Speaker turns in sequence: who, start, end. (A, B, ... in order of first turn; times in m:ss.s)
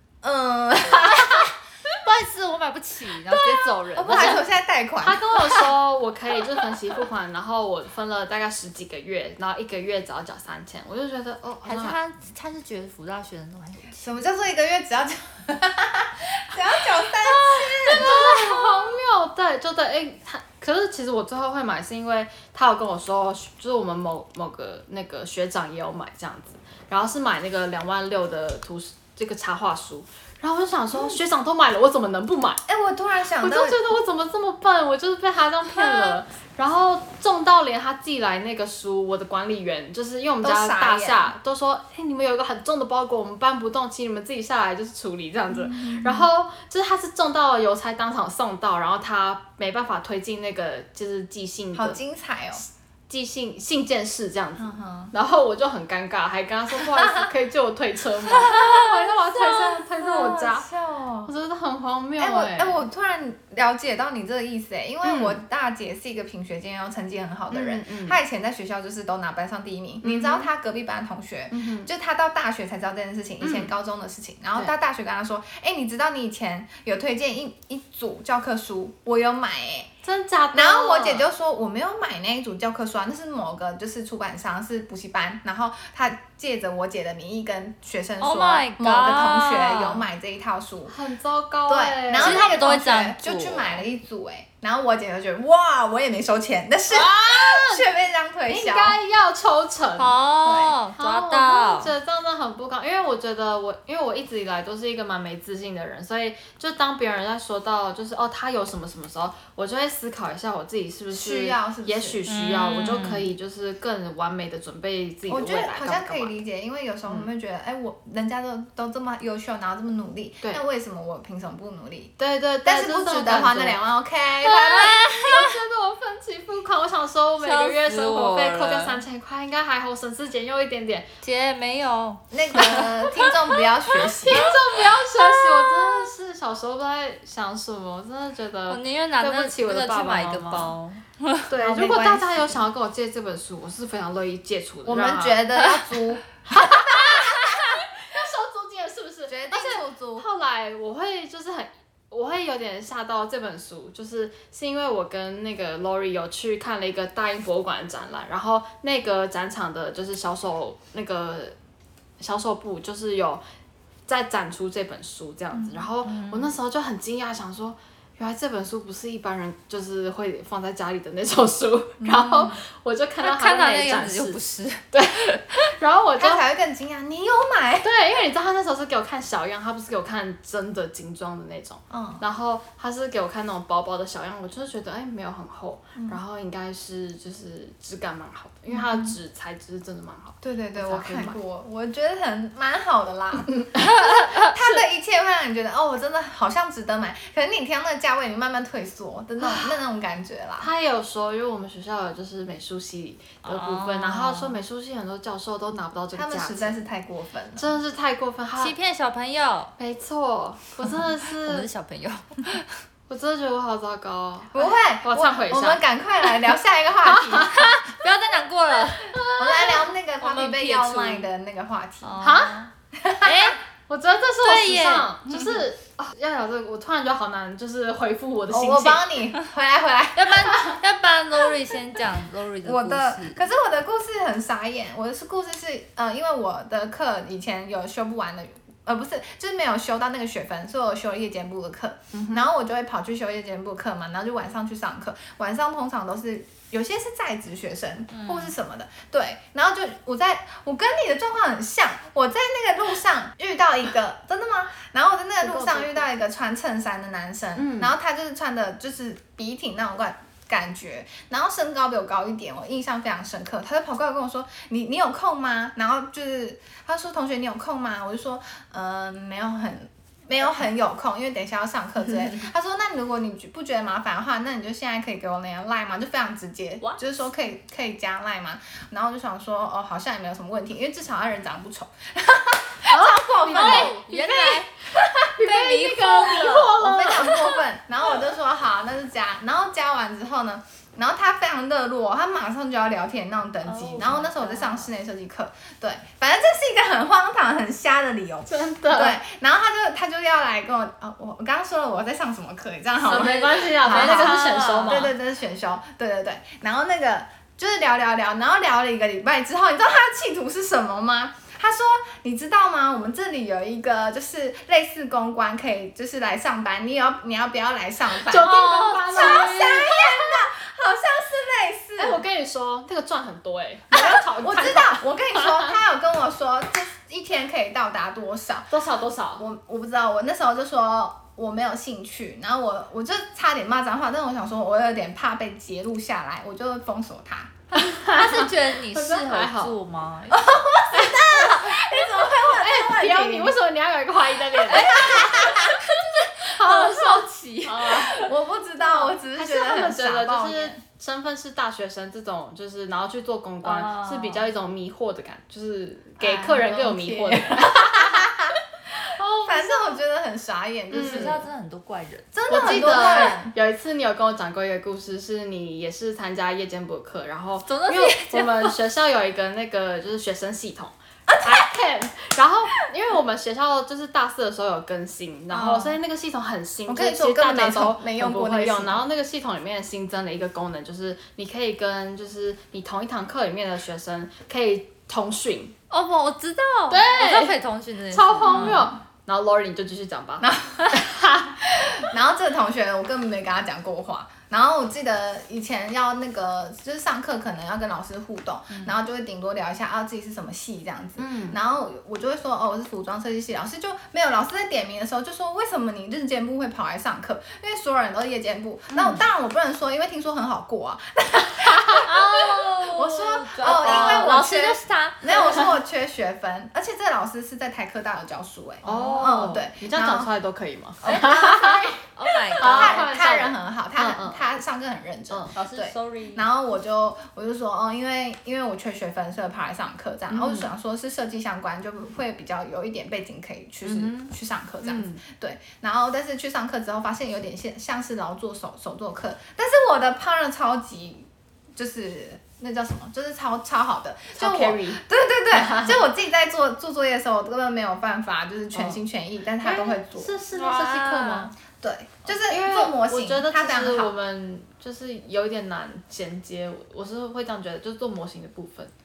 0:00.2-0:01.5 A
0:01.9-0:04.4 B
0:03.3-0:04.4 C
0:03.9-0:05.6 A
0:05.0-0:12.0 C
0:11.6-0:14.1 B
0:14.0-0:18.6 A
0:17.2-0:32.6 C
0:32.7-0:33.8 A
0:33.4-0:52.0 C
0:40.4-0:41.3 A
0:45.5-0:46.3 A
0:51.7-0:52.6 A
0:52.6-1:00.7 C
0:54.6-0:55.1 A
0:58.4-0:58.9 B
0:59.5-1:01.3 A
1:01.2-1:02.8 C
1:02.2-1:19.9 A
1:05.0-1:05.4 C
1:07.5-1:08.2 C
1:10.0-1:10.5 C
1:11.5-1:11.9 C
1:13.4-1:13.7 C
1:20.0-1:21.3 C
1:20.5-1:30.9 A
1:28.2-1:30.0 B
1:30.9-1:32.6 C
1:31.7-1:39.0 A
1:32.2-1:33.8 B
1:36.9-1:37.9 C
1:38.5-1:40.1 C
1:40.0-1:41.9 B
1:40.4-1:40.7 A
1:40.9-1:56.3 C
1:51.1-1:52.2 A
1:52.3-1:53.3 B
1:55.3-2:05.2 A
2:02.2-2:03.8 C
2:04.4-2:05.6 B
2:04.7-2:11.1 C
2:07.4-2:09.0 B
2:11.2-2:13.3 B
2:12.3-2:14.5 A
2:14.2-2:20.7 C
2:14.3-2:16.1 B
2:18.7-2:21.5 B
2:21.5-2:25.4 C
2:21.6-2:22.6 A
2:24.8-2:27.1 A
2:26.5-2:41.6 C
2:27.1-2:27.8 B
2:29.3-2:30.3 A
2:42.2-2:43.4 C
2:44.1-2:54.4 C
2:45.7-2:46.5 B
2:52.1-2:52.5 B
2:53.2-2:54.8 B
2:54.9-2:56.4 C
2:56.2-2:57.9 A
2:57.8-3:11.4 C
3:01.9-3:02.2 A
3:08.7-3:09.1 A
3:10.4-3:20.7 A
3:13.6-3:13.9 C
3:13.8-3:14.5 B
3:20.6-3:26.8 C
3:23.4-3:24.6 B
3:26.1-3:27.8 A
3:27.6-3:28.8 C
3:28.6-3:29.7 B
3:29.8-3:31.7 C
3:31.0-3:32.7 B
3:33.1-3:35.8 C
3:34.5-3:37.7 A
3:37.1-3:37.6 C
3:37.4-3:39.1 B
3:39.1-3:39.7 C
3:39.3-3:42.2 A
3:40.2-3:41.3 B
3:42.0-3:42.7 B
3:42.2-3:42.6 C
3:42.9-3:43.5 A
3:43.2-3:43.6 B
3:43.9-3:49.2 C
3:44.4-3:45.6 B
3:48.5-3:50.8 A
3:50.2-3:53.4 B
3:52.6-4:44.6 A
4:02.1-4:02.4 C
4:08.1-4:08.5 B
4:15.4-4:16.0 C
4:17.6-4:17.9 C
4:42.9-4:44.2 C
4:43.4-4:46.8 B
4:45.2-4:47.6 C
4:46.0-5:22.2 A
4:53.6-4:54.9 B
4:58.5-4:59.2 C
5:03.0-5:05.1 C
5:03.1-5:05.1 B
5:18.1-5:20.5 C
5:19.1-5:19.6 B
5:22.0-5:25.7 C
5:23.9-5:28.7 A
5:28.7-5:29.4 C
5:29.4-5:37.5 A
5:37.7-5:39.8 C
5:38.0-5:40.4 B
5:40.3-5:43.6 A
5:40.9-5:45.5 C
5:44.7-5:45.7 A
5:44.7-5:48.3 B
5:46.4-5:48.2 C
5:48.1-5:50.8 A
5:49.1-5:58.3 C
5:53.6-5:54.4 B
5:56.2-5:58.6 A
5:59.1-6:00.0 C
5:59.4-6:01.5 A
6:00.9-6:01.4 C
6:00.9-6:03.3 B
6:02.3-6:03.5 A
6:02.5-6:25.7 C
6:07.6-6:08.8 B
6:11.3-6:11.7 A
6:15.5-6:16.0 A
6:16.9-6:19.0 A
6:25.9-6:28.9 B
6:26.9-6:27.6 C
6:28.1-6:31.6 C
6:30.4-6:31.0 A
6:31.6-7:00.3 A
6:41.2-6:41.6 C
6:48.9-6:49.2 C
6:52.0-6:55.6 B
6:53.6-6:54.4 C
6:58.8-7:01.9 C
7:01.0-7:30.4 A
7:01.0-7:03.1 B
7:02.5-7:04.4 C
7:05.6-7:06.5 B
7:10.3-7:10.7 C
7:13.8-7:14.3 C
7:14.8-7:15.2 C
7:24.3-7:26.1 C
7:28.7-7:29.0 C
7:29.6-7:31.5 C
7:30.5-7:31.5 B
7:31.8-7:34.1 A
7:32.3-7:38.9 C